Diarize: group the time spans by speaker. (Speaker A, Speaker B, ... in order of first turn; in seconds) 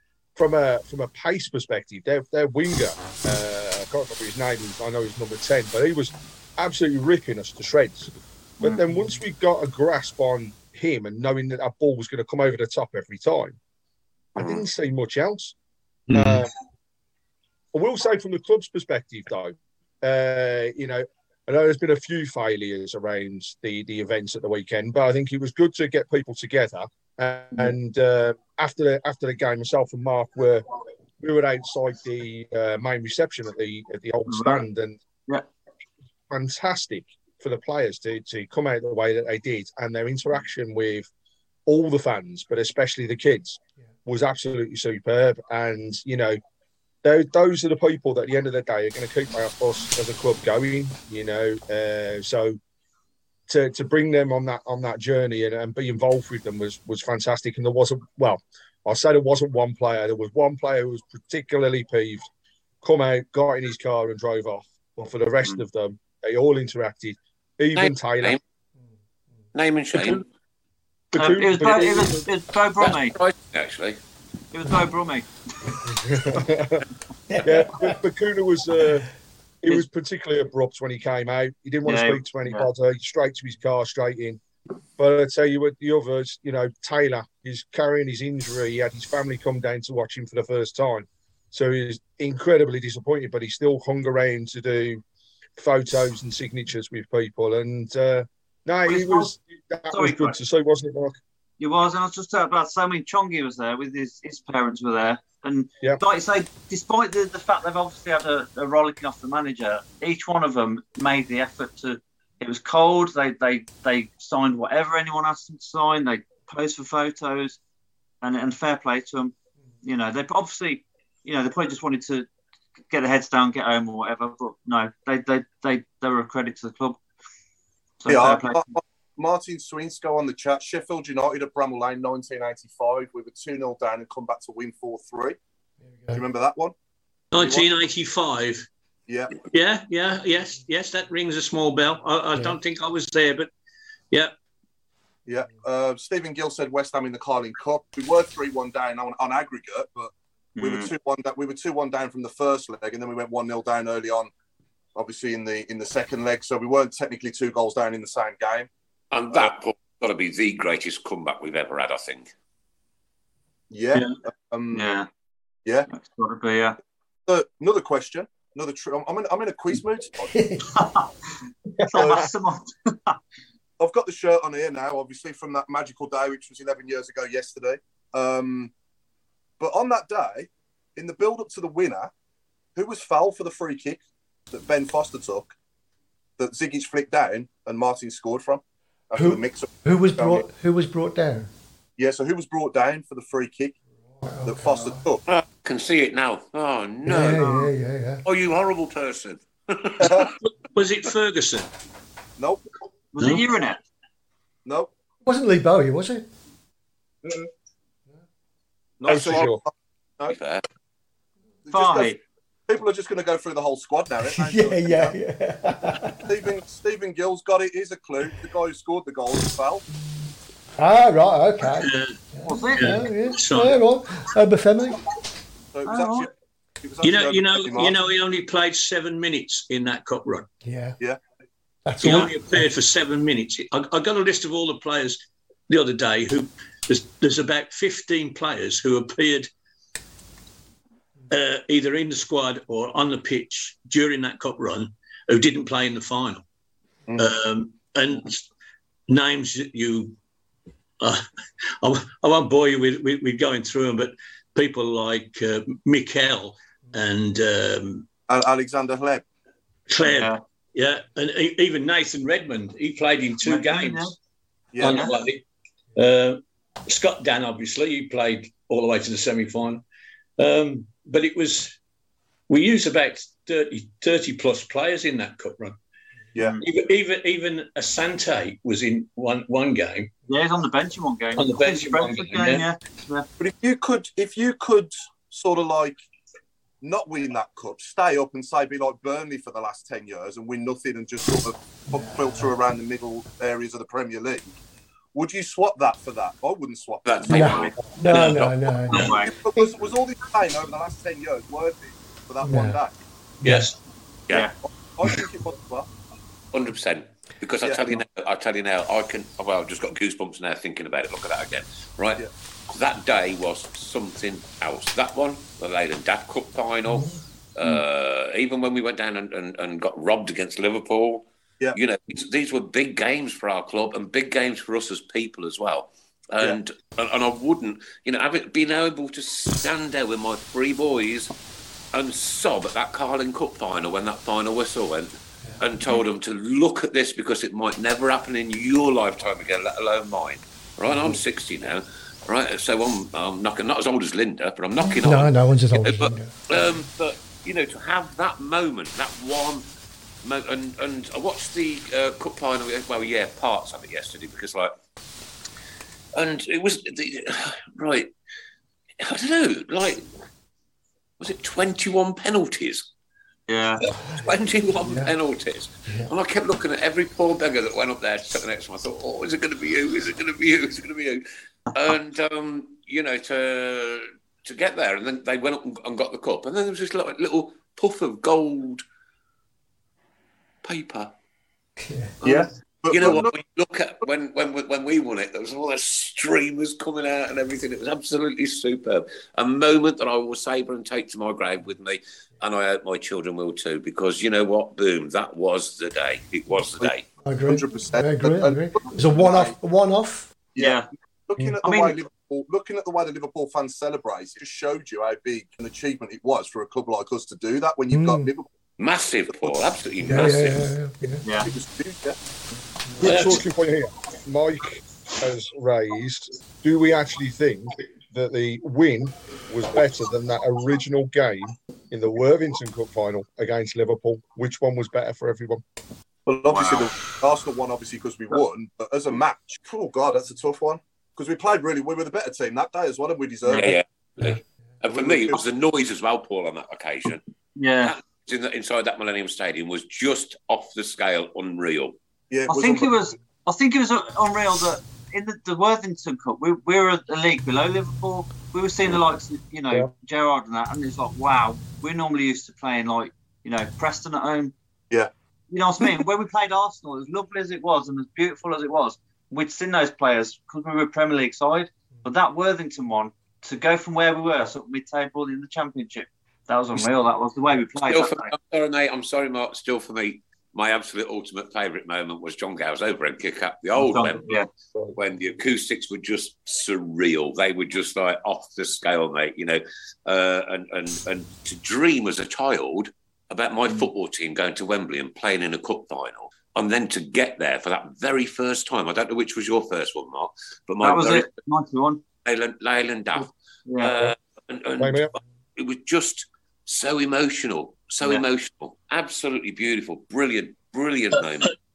Speaker A: 0.3-13.6, 14.3-15.5, 16.1-16.5, 17.7-30.6, 31.2-35.0, 36.3-41.1, 41.7-46.4, 47.0-52.6, 53.5-62.3, 62.8-68.4, 71.1-72.2, 75.8-76.8, 77.4-79.1, 79.6-84.4, 85.0-95.0, 95.6-101.2, 209.1-209.6, 413.0-425.6, 494.8-495.1
Speaker B: 14.3-14.6, 67.8-68.4, 69.5-70.2, 72.8-74.0, 159.1-162.3, 195.3-197.5, 198.2-200.3, 210.3-210.6, 297.0-298.8, 306.5-331.3, 331.9-349.6, 350.2-354.7, 356.1-358.1, 359.0-360.1, 361.2-362.9, 364.2-378.8, 380.6-381.1, 382.2-397.0, 408.8-410.7, 433.5-437.2, 437.8-441.9, 467.9-474.3, 475.0-491.3, 492.2-501.5
Speaker C: 16.1-16.4, 137.3-138.7, 139.4-143.5, 200.4-201.7, 221.7-222.1, 222.8-223.8, 227.0-230.5, 232.0-239.5, 241.3-246.4, 247.2-248.4, 249.1-250.2, 251.8-258.1, 259.9-264.1, 264.8-269.8, 270.4-271.8, 272.5-275.8, 276.6-280.1, 281.3-282.7, 303.4-303.7, 413.0-413.4, 501.1-501.5
Speaker D: 34.3-34.6, 71.1-73.2, 74.5-75.8, 81.8-82.7, 98.8-99.3, 99.9-100.4, 101.6-117.6, 118.2-122.3, 122.9-127.0, 128.0-128.7, 150.6-150.9, 164.7-165.1, 165.9-166.8, 170.7-171.1, 171.9-173.2, 203.1-203.8, 211.7-212.2, 222.5-223.1, 225.8-226.3, 260.0-260.4, 263.4-264.1, 264.8-265.1, 276.4-276.6, 280.3-283.3, 298.9-299.3, 363.5-363.8, 400.6-400.9, 401.6-402.0, 411.2-411.5, 426.5-426.8, 433.5-433.7, 437.6-437.9, 442.5-454.5, 455.5-468.3, 473.8-474.5, 490.8-492.0, 493.7-494.1
Speaker E: 77.3-78.0, 135.9-136.2, 170.3-170.7, 189.1-191.5, 194.2-195.0, 197.0-198.2, 205.2-206.2, 214.3-216.3, 220.8-225.0, 230.6-231.0, 231.8-232.7, 291.9-292.5, 297.3-299.1, 302.4-302.8, 303.4-303.7, 344.8-346.6, 363.9-365.1, 381.8-382.1, 397.2-400.3, 407.9-408.3, 410.0-411.2
Speaker F: 128.1-135.4, 136.1-136.7, 137.3-137.7, 139.1-139.4, 145.2-154.3, 154.9-158.7, 163.7-164.8, 167.3-170.3, 171.9-172.3, 173.8-178.7, 179.6-182.1, 182.8-184.0, 184.5-185.5, 186.4-190.5, 192.0-193.8, 194.4-195.2, 200.0-200.3, 202.4-202.6, 209.0-210.4, 211.7-212.1, 212.7-215.2, 216.2-219.8, 225.7-228.0, 258.3-259.2, 264.7-265.1, 283.4-286.0, 286.8-294.6, 295.1-297.6, 299.2-302.9, 304.9-305.9, 382.2-383.3, 397.5-399.6, 400.5-408.5, 411.4-412.2, 426.3-433.7, 434.9-435.4, 442.3-443.0